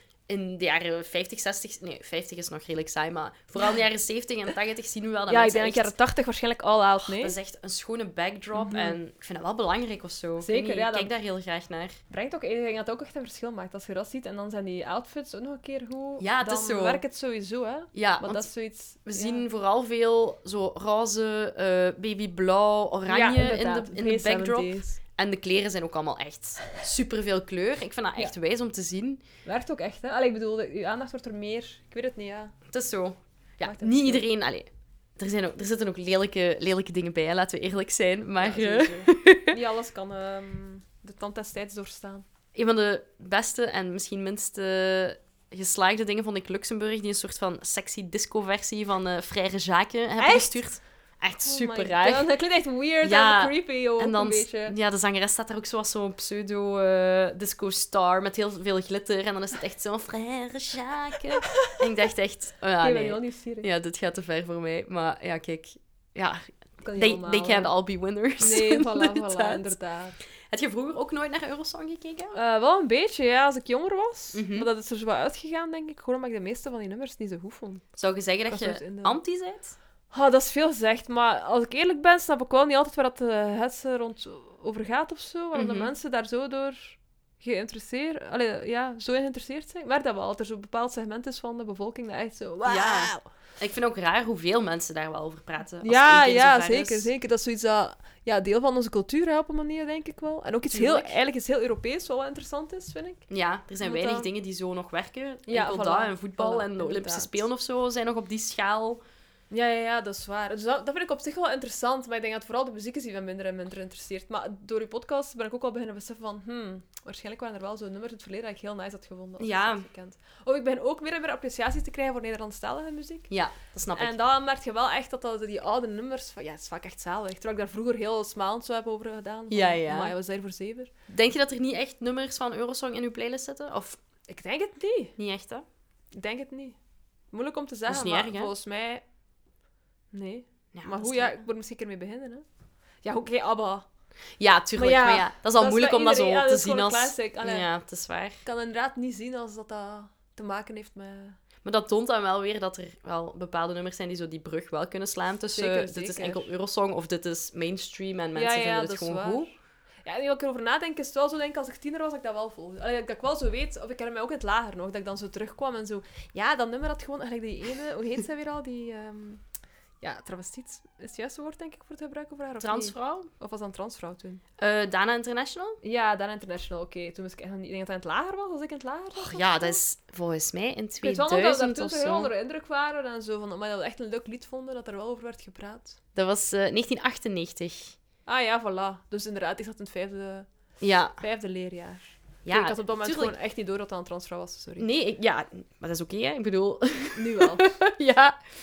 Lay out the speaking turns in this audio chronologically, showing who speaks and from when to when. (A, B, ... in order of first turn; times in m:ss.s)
0:00.3-0:05.9 A
0:05.3-0:07.4 B
0:07.0-0:12.0 A
0:08.5-0:09.0 B
0:10.4-0:11.1 B
0:12.1-0:19.4 B
0:16.2-0:17.0 A
0:17.9-0:18.5 A
0:19.0-0:29.2 A
0:23.1-0:25.0 B
0:29.4-0:32.5 B
0:32.7-0:39.5 A
0:33.6-0:34.2 B
0:38.4-0:42.2 B
0:42.5-0:52.3 A
0:50.2-0:50.6 B
0:51.4-0:54.8 B
0:53.0-1:09.7 A
1:02.8-1:03.7 B
1:06.8-1:07.7 B
1:08.4-1:10.2 B
1:10.5-1:12.4 A
1:12.3-1:17.8 B
1:14.3-1:14.7 A
1:18.0-1:19.7 A
1:18.5-1:19.2 B
1:20.1-1:33.3 B
1:25.5-1:25.9 A
1:32.6-1:37.1 A
1:35.8-1:43.2 B
1:40.7-1:41.1 A
1:43.3-1:49.0 A
1:43.8-1:44.3 B
1:45.5-1:47.4 B
1:49.5-2:03.3 B
1:59.4-1:59.8 A
2:03.3-2:04.2 A
2:03.9-2:10.9 B
2:09.5-2:10.1 A
2:11.1-2:14.0 A
2:14.3-2:15.2 B
2:15.2-2:15.6 A
2:16.1-2:16.8 B
2:17.3-2:19.0 B
2:17.9-2:18.5 A
2:20.1-2:22.4 B
2:20.7-2:21.4 A
2:23.0-2:23.8 B
2:24.4-2:28.4 A
2:24.8-2:27.7 B
2:28.4-2:31.4 B
2:31.6-2:39.5 A
2:35.5-2:36.4 B
2:38.3-2:39.5 B
2:40.0-2:49.4 B
2:50.0-2:54.4 B
2:52.6-2:53.3 A
2:54.6-2:55.8 A
2:55.8-2:59.8 B
2:59.2-3:02.3 A
3:01.0-3:06.0 B
3:06.1-3:08.0 A
3:08.2-3:10.5 B
3:10.8-3:11.2 A
3:11.2-3:14.9 B
3:12.4-3:13.3 A
3:14.8-3:18.4 A
3:17.1-3:17.7 B